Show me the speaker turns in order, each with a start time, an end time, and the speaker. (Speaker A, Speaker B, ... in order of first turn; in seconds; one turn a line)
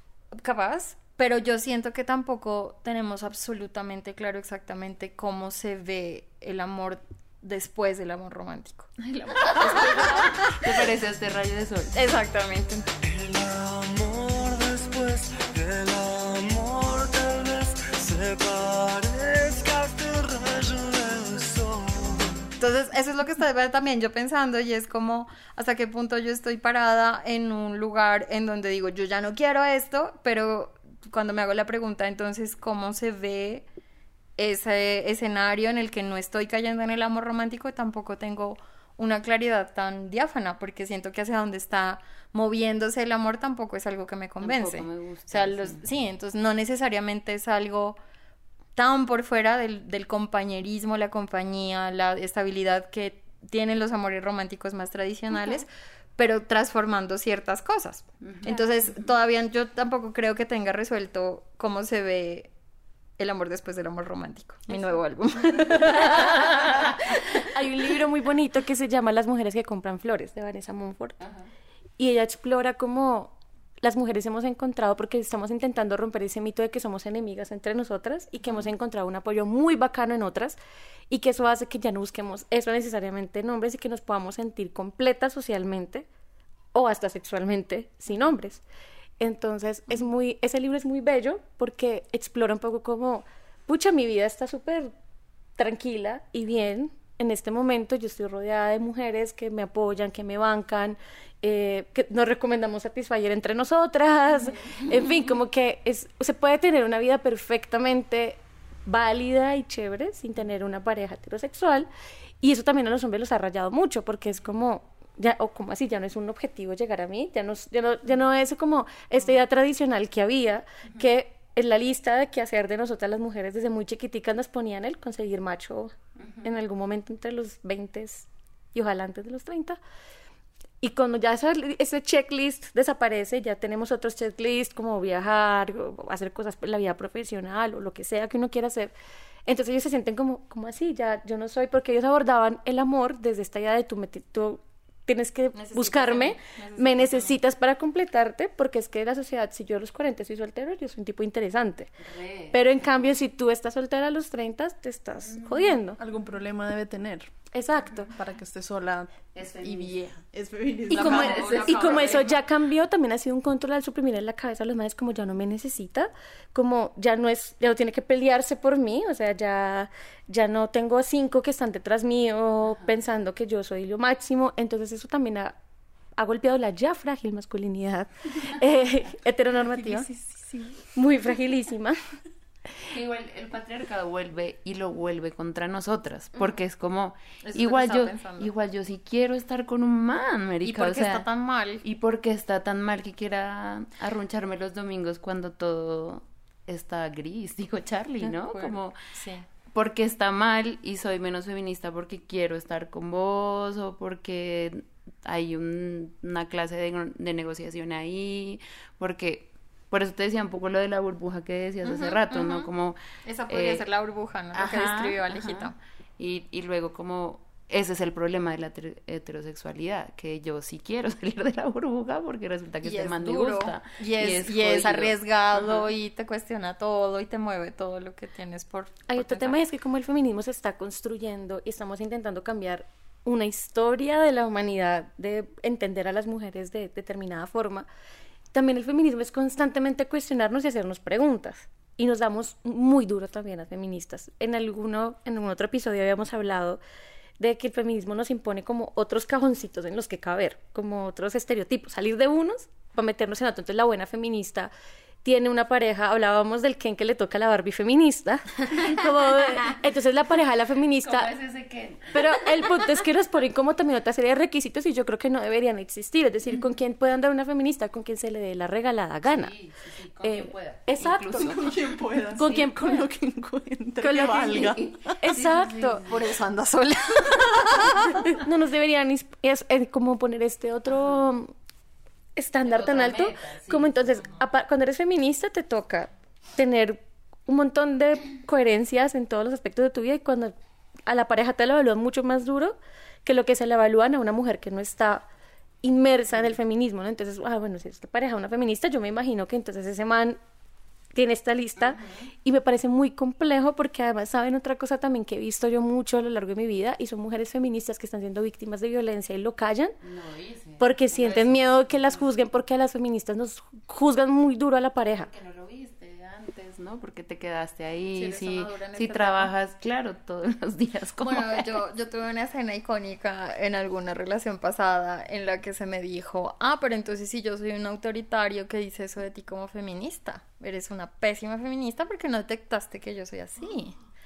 Speaker A: 0.4-10.9
Speaker B: 9.0-11.9
Speaker A: 11.9-12.8
Speaker C: 13.1-22.3
Speaker A: 22.6-33.6
Speaker A: 34.4-48.0
Speaker B: 44.4-45.8
Speaker A: 48.8-62.5
Speaker B: 58.2-58.5
Speaker A: 63.2-67.2
Speaker D: 65.8-66.6
Speaker D: 67.3-71.2
Speaker B: 71.2-71.5
Speaker D: 72.0-80.6
Speaker D: 81.1-86.1
Speaker D: 86.7-88.6
Speaker D: 89.2-94.9
Speaker D: 95.6-111.9
Speaker D: 112.4-129.8
Speaker D: 130.8-138.9
Speaker D: 139.4-151.9
Speaker A: 145.5-147.4
Speaker B: 152.1-152.5
Speaker D: 152.5-156.0
Speaker B: 155.4-155.7
Speaker E: 156.0-157.3
Speaker D: 157.5-158.1
Speaker E: 158.1-161.3
Speaker B: 159.3-159.9
Speaker A: 160.9-162.3
Speaker B: 160.9-162.4
Speaker D: 160.9-175.6
Speaker D: 176.2-180.1
Speaker A: 180.2-180.7
Speaker D: 180.9-182.0
Speaker B: 182.8-191.2
Speaker A: 187.4-188.5
Speaker A: 190.6-191.8
Speaker B: 191.8-198.9
Speaker A: 198.2-199.4
Speaker B: 199.7-213.8
Speaker A: 211.8-212.7
Speaker A: 213.2-215.7
Speaker B: 214.5-225.9
Speaker A: 222.8-229.6
Speaker D: 229.1-237.9
Speaker D: 238.5-246.8
Speaker D: 247.4-254.7
Speaker D: 255.2-261.3
Speaker B: 261.0-262.5
Speaker D: 262.1-269.5
Speaker B: 269.2-271.7
Speaker D: 270.2-271.5
Speaker E: 271.4-275.1
Speaker D: 272.4-273.0
Speaker D: 274.0-276.0
Speaker B: 274.1-276.2
Speaker A: 276.0-278.3
Speaker D: 278.3-281.5
Speaker D: 282.4-290.5
Speaker B: 282.6-284.3
Speaker D: 291.1-295.2
Speaker D: 295.8-300.4
Speaker D: 301.1-309.9
Speaker B: 301.9-302.2
Speaker B: 310.0-312.2
Speaker D: 310.8-315.3
Speaker B: 315.1-321.7
Speaker A: 318.1-319.5
Speaker A: 321.2-333.9